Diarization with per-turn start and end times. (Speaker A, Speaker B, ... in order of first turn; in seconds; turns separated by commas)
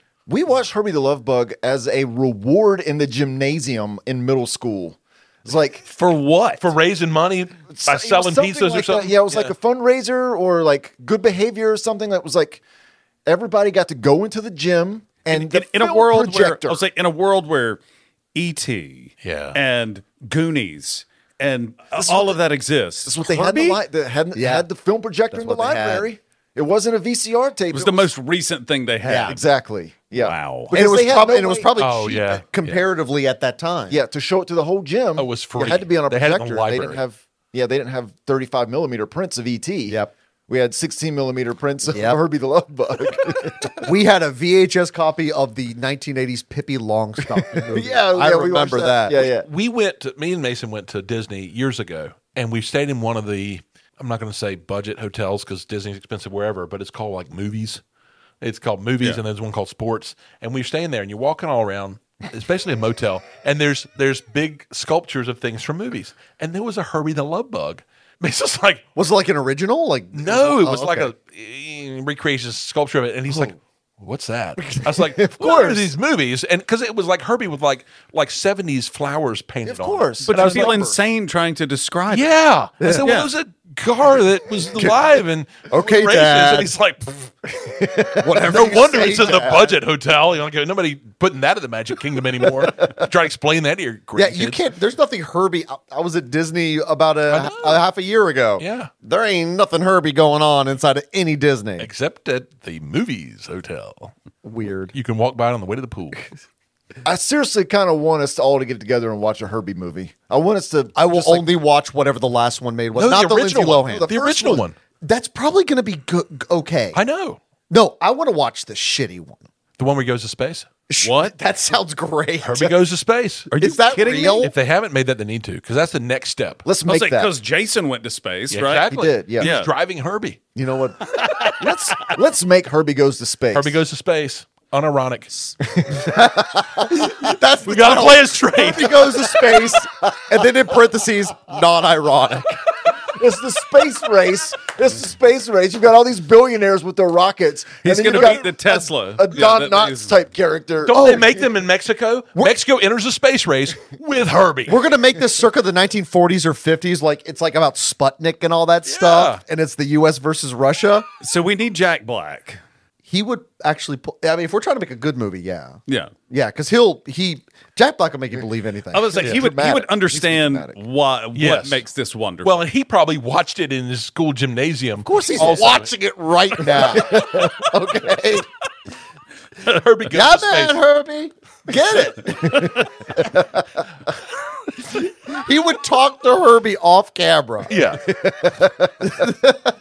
Speaker A: 0.3-0.6, Speaker B: 0.6-5.8, Speaker C: 5.9-6.7, Speaker D: 6.6-9.5, Speaker B: 7.7-12.6, Speaker B: 13.3-16.8, Speaker C: 15.3-17.8, Speaker C: 18.3-23.2, Speaker D: 19.2-19.6, Speaker B: 22.0-22.4, Speaker B: 23.1-28.1, Speaker A: 23.4-23.8, Speaker A: 24.3-24.6, Speaker A: 25.3-26.1, Speaker C: 27.7-29.4, Speaker A: 29.1-29.4, Speaker B: 29.1-31.7, Speaker C: 30.1-30.8, Speaker A: 30.7-34.0, Speaker D: 31.8-32.8, Speaker B: 33.9-43.9, Speaker D: 35.2-37.0, Speaker A: 41.9-42.2, Speaker A: 43.8-49.3, Speaker B: 47.7-49.5, Speaker D: 49.1-57.8, Speaker D: 58.4-68.8, Speaker A: 69.0-71.1, Speaker D: 70.1-80.8, Speaker A: 74.9-75.9, Speaker A: 79.7-81.0, Speaker C: 80.2-82.3, Speaker B: 80.6-80.8, Speaker D: 82.1-87.3, Speaker A: 82.8-83.1, Speaker C: 82.8-83.3, Speaker A: 85.7-86.7, Speaker A: 87.6-89.7, Speaker B: 88.2-89.5, Speaker D: 88.3-94.6, Speaker A: 94.2-101.9, Speaker D: 97.3-97.8, Speaker D: 98.6-98.9, Speaker D: 101.8-104.1, Speaker A: 104.4-104.9, Speaker D: 104.9-106.3, Speaker B: 107.0-111.0, Speaker A: 111.0-117.0, Speaker D: 111.2-111.4, Speaker D: 113.0-114.8, Speaker D: 116.9-117.4, Speaker A: 117.7-119.5, Speaker D: 119.8-120.7, Speaker A: 120.9-122.8, Speaker C: 121.0-121.3, Speaker D: 122.4-123.5, Speaker C: 123.5-124.5, Speaker A: 123.6-124.5, Speaker D: 124.4-126.7, Speaker B: 126.7-127.3, Speaker C: 126.9-129.7, Speaker D: 128.5-130.4, Speaker B: 128.9-129.5, Speaker A: 130.6-131.0, Speaker C: 131.1-131.9, Speaker B: 131.6-133.8, Speaker D: 133.5-135.3, Speaker B: 135.8-136.5, Speaker A: 136.0-142.6, Speaker D: 137.6-139.4, Speaker B: 138.5-139.8, Speaker B: 143.2-151.5, Speaker C: 147.8-150.2, Speaker D: 148.1-148.4, Speaker D: 150.9-154.8, Speaker A: 154.7-161.1, Speaker D: 158.8-159.4, Speaker C: 161.2-162.6, Speaker A: 163.1-170.8, Speaker C: 165.9-166.1, Speaker C: 168.9-172.6, Speaker D: 169.2-169.4, Speaker B: 169.2-170.4, Speaker D: 171.3-171.8, Speaker D: 172.4-175.9, Speaker A: 175.1-178.5, Speaker D: 179.6-180.8, Speaker A: 180.1-183.8, Speaker A: 184.8-189.6, Speaker D: 187.7-188.0